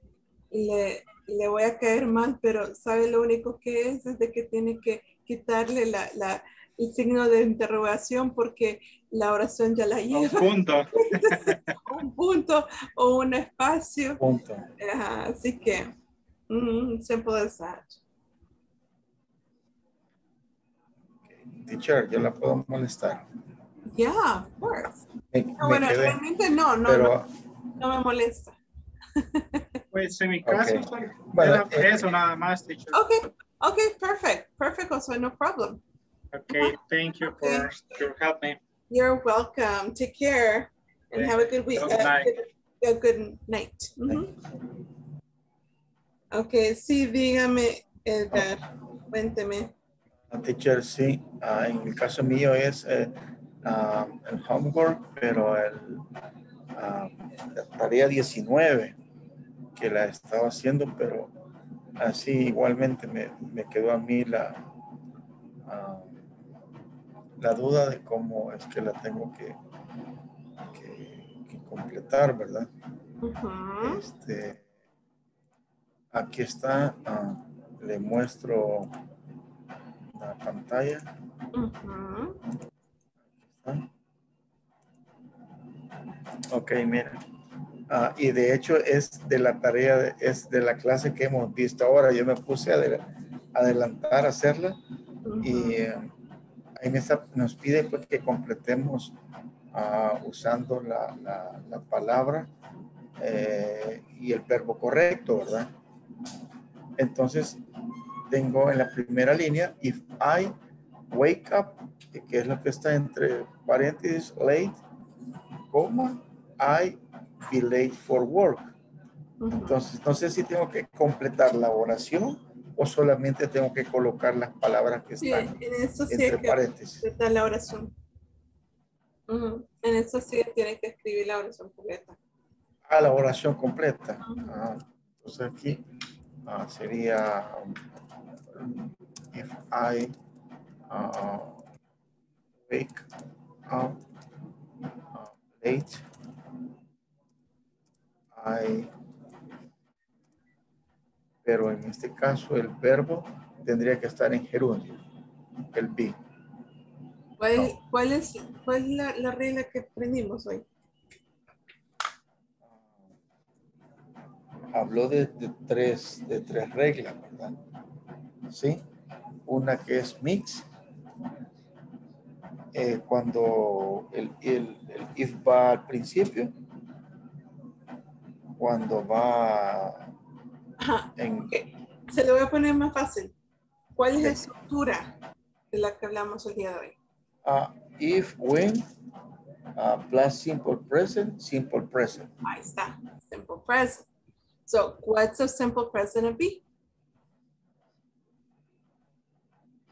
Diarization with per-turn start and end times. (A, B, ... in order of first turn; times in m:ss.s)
0:00.5-0:14.2 A
0:10.1-0:11.8 B
0:14.2-0:14.7 C
0:14.8-0:15.9 A
0:16.5-0:18.0 A
0:21.3-0:23.3 C
0:23.9-0:25.0 A
0:25.3-0:26.2 C
0:25.6-0:27.2 A
0:26.9-0:27.3 C
0:27.8-0:28.6 A
0:29.2-0:29.8 A
0:29.9-0:33.0 B
0:30.4-0:32.1 C
0:32.9-0:35.8 A
0:36.3-0:38.6 B
0:36.5-0:37.7 A
0:38.9-0:44.3 A
0:41.1-0:42.4 B
0:46.3-0:49.7 A
0:50.3-0:56.0 C
0:56.8-0:59.0 C
0:59.8-1:01.3 C
1:02.0-1:04.6 C
1:05.7-1:06.3 C
1:07.4-1:09.6 C
1:10.7-1:12.7 C
1:13.2-1:14.0 A
1:13.8-1:14.6 C
1:16.1-1:18.9 C
1:20.2-1:21.1 C
1:21.5-1:22.4 A
1:23.4-1:23.9 C
1:26.5-1:27.2 C
1:27.9-1:34.8 C
1:35.2-1:35.8 A
1:35.4-1:36.1 C
1:36.8-1:39.2 C
1:39.7-1:42.5 C
1:43.2-1:45.7 C
1:47.0-1:47.6 C
1:48.3-1:50.6 C
1:51.1-1:54.8 C
1:55.7-1:58.7 C
1:59.4-1:59.8 A
1:59.5-2:05.5 C
2:05.2-2:07.9 A
2:06.1-2:07.0 C
2:09.3-2:12.2 A
2:12.9-2:15.8 C
2:14.2-2:14.5 A
2:16.4-2:17.8 C
2:18.5-2:20.2 C
2:20.9-2:21.6 C
2:22.7-2:23.0 C
2:23.7-2:24.0 C
2:25.1-2:26.0 C
2:28.3-2:28.9 C
2:31.4-2:35.0 C
2:35.7-2:36.2 C
2:37.4-2:40.6 A
2:42.6-2:43.1 C
2:44.7-2:47.6 C
2:48.5-2:48.8 C
2:49.5-2:50.7 C
2:52.7-2:56.5 C
2:58.6-3:00.1 C
3:00.8-3:03.3 A
3:01.2-3:01.5 C
3:04.0-3:05.1 A
3:04.2-3:04.5 C
3:05.7-3:07.0 A
3:07.4-3:08.9 C
3:09.8-3:12.3 C
3:12.4-3:14.1 A
3:14.7-3:16.6 A